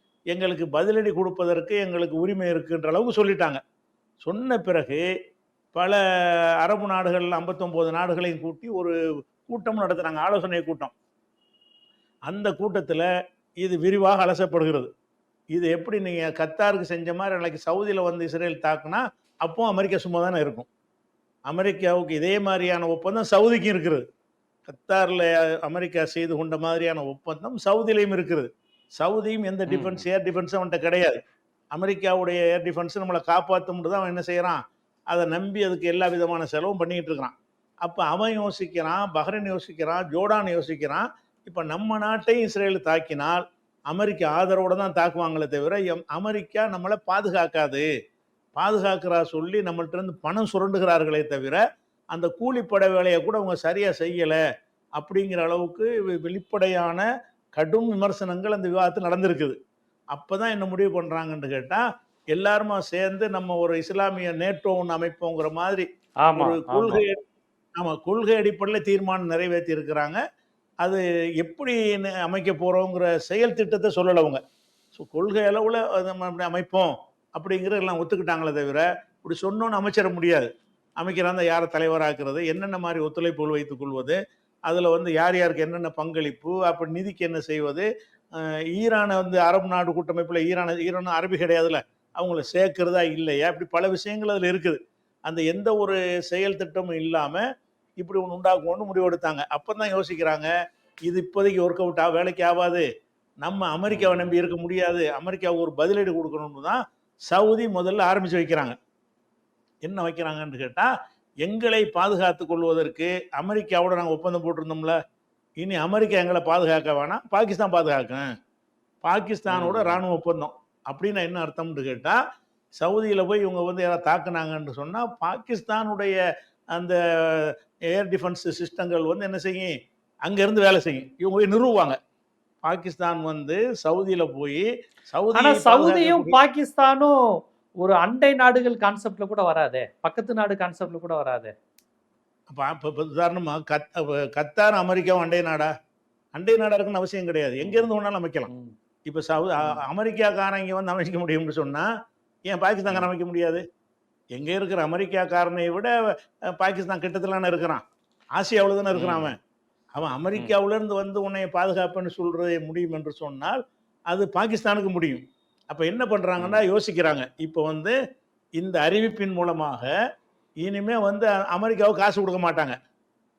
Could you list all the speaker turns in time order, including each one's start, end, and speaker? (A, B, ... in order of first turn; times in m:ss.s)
0:00.3-0:03.6 A
0:04.2-0:05.0 A
0:06.6-0:08.9 A
0:09.5-0:10.9 A
0:12.3-0:13.0 A
0:13.6-0:14.9 A
0:15.6-0:20.7 A
0:21.5-0:24.0 A
0:24.7-0:31.2 A
0:29.7-0:30.0 B
0:31.7-0:34.6 A
0:35.1-0:47.8 A
0:48.6-0:51.6 A
0:52.1-0:54.4 A
0:55.0-0:57.0 A
0:57.6-0:59.6 A
1:00.1-1:07.2 A
1:06.2-1:07.0 B
1:07.8-1:10.2 A
1:10.8-1:14.4 A
1:14.9-1:24.2 A
1:24.7-1:27.9 A
1:28.4-1:37.4 A
1:38.0-1:40.5 A
1:41.1-1:42.9 A
1:43.4-1:48.8 A
1:43.9-1:44.3 B
1:49.8-1:50.9 A
1:51.4-1:55.0 A
1:55.6-1:58.2 A
1:59.0-2:02.2 A
1:59.5-2:00.0 B
2:02.8-2:06.2 A
2:06.7-2:09.7 A
2:10.2-2:12.0 A
2:12.6-2:16.4 A
2:15.4-2:17.2 B
2:17.8-2:21.5 B
2:22.5-2:25.7 A
2:26.4-2:28.5 A
2:27.6-2:27.9 B
2:28.5-2:28.7 B
2:29.1-2:31.9 A
2:32.5-2:33.6 A
2:34.4-2:35.9 A
2:36.5-2:37.8 A
2:38.4-2:39.4 A
2:38.9-2:39.3 B
2:40.0-2:43.6 A
2:44.1-2:48.0 A
2:46.4-2:46.6 B
2:48.6-2:49.9 A
2:50.6-2:52.8 A